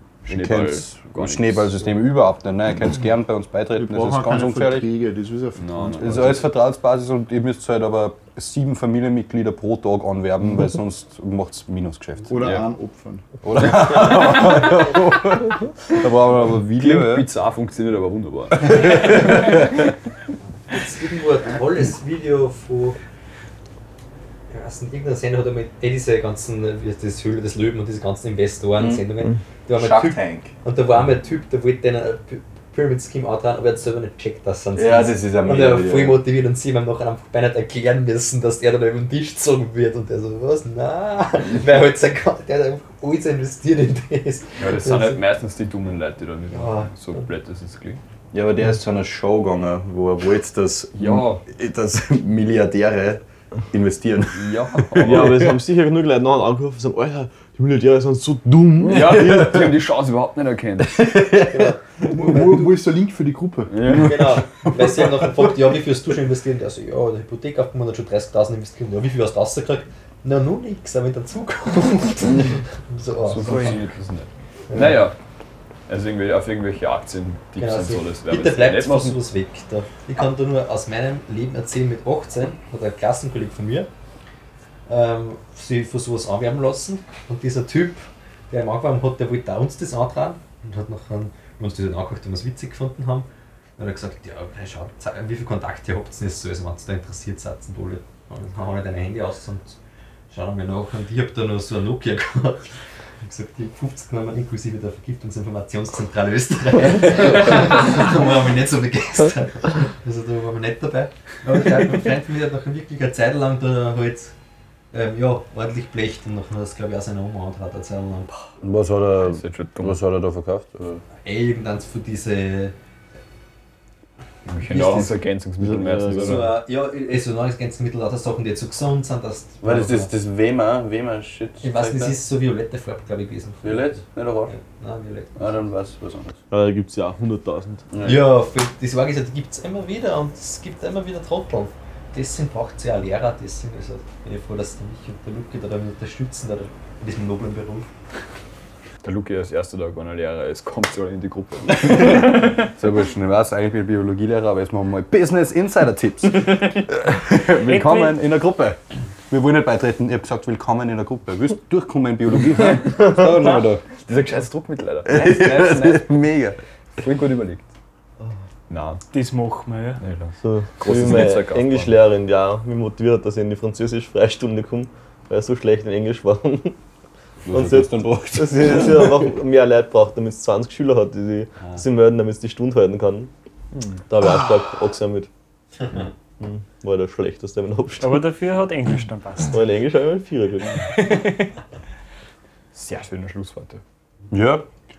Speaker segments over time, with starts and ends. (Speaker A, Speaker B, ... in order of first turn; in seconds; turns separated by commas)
Speaker A: 0.2-1.9, Speaker B: 0.2-4.9, Speaker C: 3.8-6.4, Speaker A: 5.6-6.4, Speaker B: 6.0-12.4, Speaker C: 12.3-13.2, Speaker B: 13.4-17.3, Speaker A: 16.8-19.8, Speaker B: 18.6-19.4, Speaker D: 20.7-23.0, Speaker D: 24.5-45.2, Speaker B: 28.8-29.0, Speaker B: 29.7-30.5, Speaker B: 34.8-36.2, Speaker A: 44.6-48.0, Speaker D: 46.5-47.2, Speaker B: 48.3-55.6, Speaker A: 51.0-51.4, Speaker A: 54.3-55.5, Speaker E: 55.0-59.5, Speaker B: 58.8-59.8, Speaker A: 58.9-61.1, Speaker B: 60.9-61.7, Speaker D: 61.5-62.6, Speaker C: 62.0-63.9, Speaker A: 63.7-64.4, Speaker B: 63.8-64.2, Speaker D: 63.9-73.8, Speaker A: 73.3-75.2, Speaker D: 74.7-75.0, Speaker A: 75.9-79.2, Speaker D: 77.6-83.9, Speaker D: 84.9-93.3, Speaker D: 93.8-99.8, Speaker D: 100.3-102.7, Speaker D: 103.2-114.3, Speaker D: 114.9-118.3, Speaker B: 118.6-121.0, Speaker A: 119.2-120.0, Speaker D: 121.2-122.7, Speaker A: 124.5-126.6, Speaker D: 124.6-125.1, Speaker E: 125.6-126.5, Speaker D: 126.1-130.1, Speaker B: 129.6-132.2, Speaker D: 131.6-134.0, Speaker B: 133.6-134.6, Speaker D: 134.5-135.3, Speaker B: 135.3-136.4, Speaker E: 136.5-137.9, Speaker B: 137.9-138.3, Speaker D: 138.0-147.9, Speaker A: 149.0-152.7, Speaker B: 151.7-158.8, Speaker F: 157.5-158.2, Speaker B: 159.3-163.9, Speaker E: 162.8-163.4, Speaker A: 164.0-166.2, Speaker B: 165.1-166.6, Speaker A: 167.0-167.7, Speaker A: 168.7-169.0, Speaker F: 169.1-170.0, Speaker A: 170.0-172.0, Speaker E: 170.4-176.8, Speaker B: 177.4-179.3, Speaker E: 177.5-183.3, Speaker A: 183.7-184.0, Speaker E: 184.1-185.3, Speaker E: 186.4-188.2, Speaker F: 188.0-189.6, Speaker E: 189.5-190.9, Speaker F: 190.9-191.5, Speaker A: 192.7-193.8, Speaker B: 194.3-194.6